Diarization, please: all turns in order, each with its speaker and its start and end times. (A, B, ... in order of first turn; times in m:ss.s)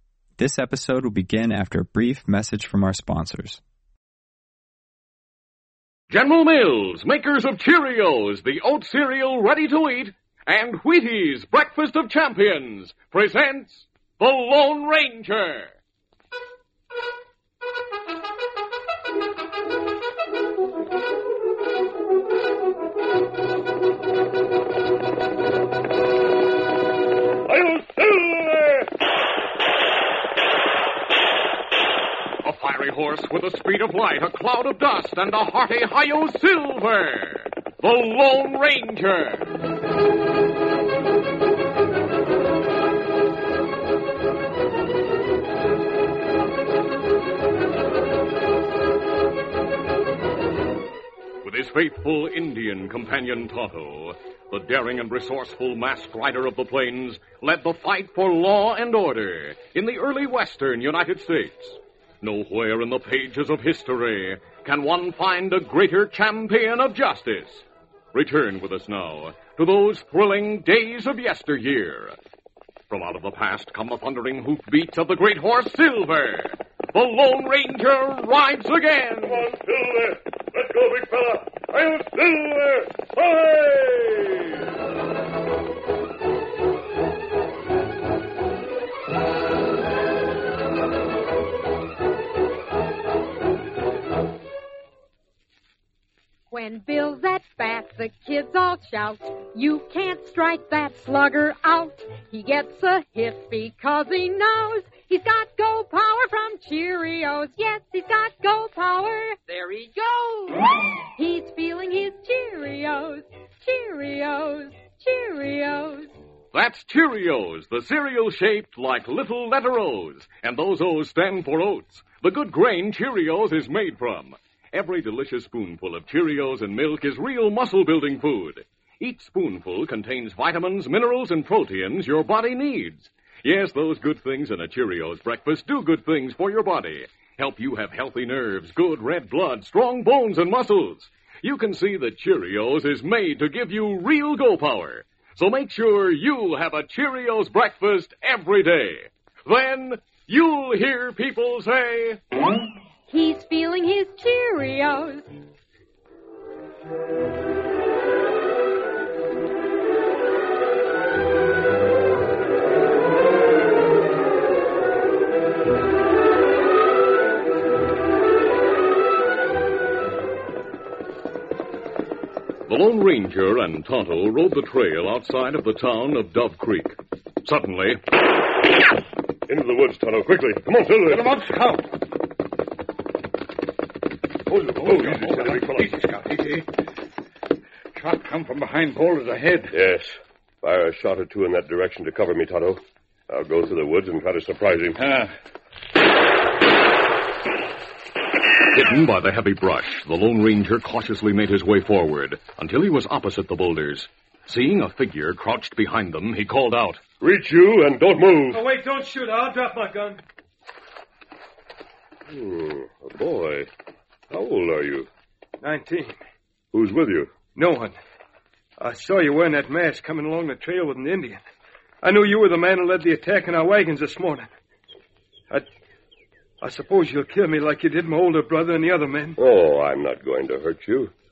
0:00.4-0:03.6 A
0:06.1-0:15.7 B
0:27.5-0:28.9 C
0:32.4-0:39.5 B
0:51.4-1:12.2 B
1:12.9-1:19.4 B
1:19.2-1:24.6 C
1:36.5-1:56.1 D
1:56.5-2:32.2 B
2:33.1-2:35.3 D
2:52.7-2:58.0 B
2:59.5-3:01.4 C
3:01.1-3:01.9 E
3:04.6-3:05.9 C
3:04.7-3:06.7 E
3:07.9-3:09.7 E
3:09.7-3:15.0 C
3:15.0-3:15.3 E
3:18.7-3:27.0 B
3:27.2-3:28.6 C
3:28.5-3:30.2 F
3:32.3-3:33.7 C
3:34.3-3:35.1 C
3:35.6-3:36.2 F
3:36.7-3:37.4 C
3:37.5-3:38.0 F
3:38.8-3:41.4 F
3:42.0-3:44.5 F
3:46.6-3:49.4 F
3:49.4-3:51.1 C